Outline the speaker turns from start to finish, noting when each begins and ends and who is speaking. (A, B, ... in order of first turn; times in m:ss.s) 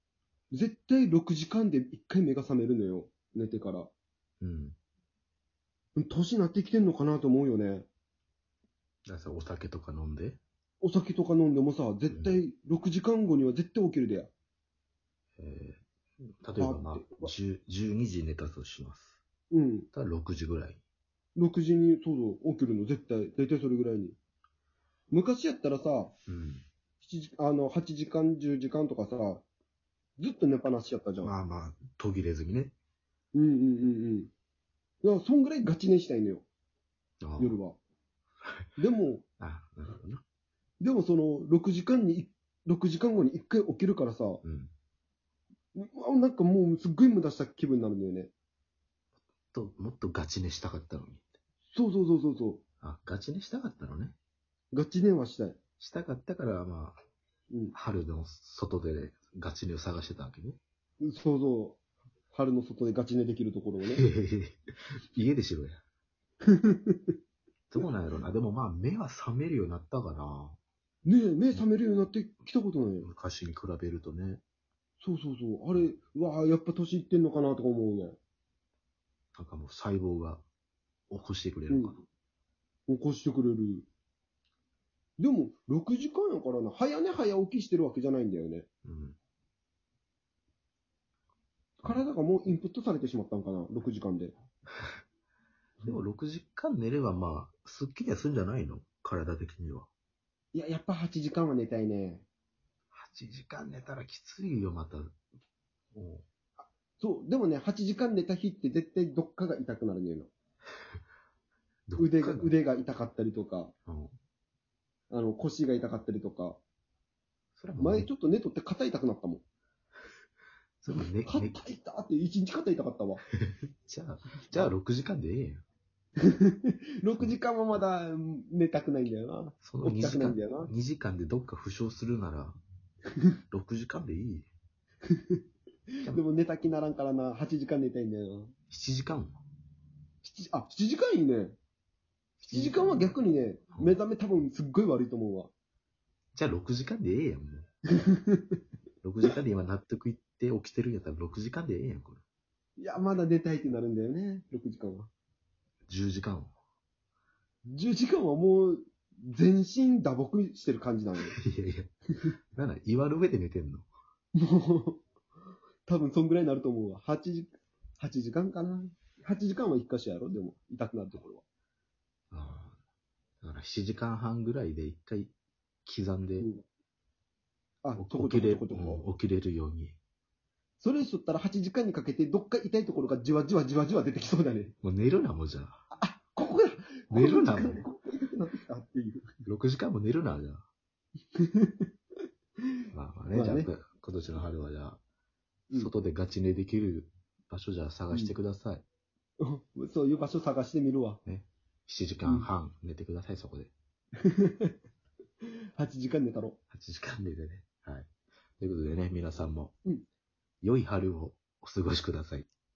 0:00.5-0:03.9 A
0:04.4-0:04.8 B
0:06.0-0:07.9 A
0:09.1-0:10.4 B
0:10.8-0:14.3 A
0:12.1-0:12.4 B
0:15.4-0:15.8 B
0:16.4-0:19.2 B
0:16.6-0:17.3 A
0:19.5-0:19.9 A
0:19.9-0:20.8 B
0:21.4-0:24.2 A
0:25.1-0:26.1 A
0:26.3-0:26.6 B
0:27.0-0:29.4 A
0:30.2-0:31.3 A
0:31.2-0:32.7 B
0:33.3-0:34.3 A
0:35.0-0:36.4 A
0:37.2-0:37.6 B
0:37.4-0:37.8 A
0:38.8-0:39.2 A
0:39.4-0:40.2 B
0:40.8-0:44.4 A
0:44.4-0:44.7 B
0:45.7-0:48.3 A
0:49.5-0:51.3 B
0:51.7-0:52.6 A
0:52.8-0:54.2 B
0:54.7-0:55.6 A
0:55.8-0:57.0 B
0:57.7-1:00.6 B
1:01.0-1:01.8 A
1:02.3-1:04.0 A
1:03.9-1:05.8 B
1:06.5-1:07.1 A
1:07.7-1:10.6 B
1:11.0-1:13.1 A
1:13.0-1:14.4 B
1:15.0-1:18.2 A
1:19.3-1:20.4 B
1:21.1-1:22.0 B
1:21.7-1:21.9 A
1:22.9-1:23.9 A
1:25.2-1:28.7 A
1:28.8-1:29.2 B
1:31.8-1:34.3 A
1:35.8-1:39.9 B
1:40.5-1:42.2 A
1:42.9-1:45.1 B
1:45.9-1:46.2 B
1:47.0-1:50.3 A
1:51.9-1:52.5 B
1:52.0-1:53.7 A
1:53.9-1:54.1 B
1:55.1-1:56.6 A
1:57.6-1:58.1 B
1:57.8-1:59.4 A
2:00.8-2:01.6 B
2:01.2-2:03.2 A
2:03.5-2:05.6 B
2:06.3-2:10.7 A
2:09.6-2:12.6 B
2:13.5-2:14.5 B
2:16.0-2:18.5 A
2:18.7-2:19.3 B
2:20.2-2:21.6 A
2:22.4-2:23.1 B
2:22.5-2:25.5 A
2:26.3-2:27.7 B
2:28.1-2:28.6 A
2:29.0-2:32.2 B
2:32.8-2:35.1 A
2:35.9-2:36.5 B
2:37.7-2:41.3 A
2:41.4-2:41.9 B
2:42.5-2:43.9 B
2:44.4-2:45.0 A
2:45.8-2:51.4 A
2:52.3-2:52.8 B
2:53.4-2:55.3 B
2:55.8-2:56.5 B
2:56.4-2:56.6 A
2:57.8-2:59.0 A
2:58.0-3:00.0 B
3:00.8-3:04.7 A
3:04.8-3:05.8 B
3:05.9-3:09.3 A
3:07.1-3:07.8 B
3:09.4-3:10.6 B
3:11.4-3:11.9 A
3:12.9-3:15.0 B
3:13.3-3:13.7 A
3:15.7-3:18.8 B
3:19.4-3:21.2 A
3:21.2-3:23.7 B
3:24.2-3:24.7 A
3:25.8-3:26.6 A
3:26.7-3:29.7 B
3:30.6-3:32.4 B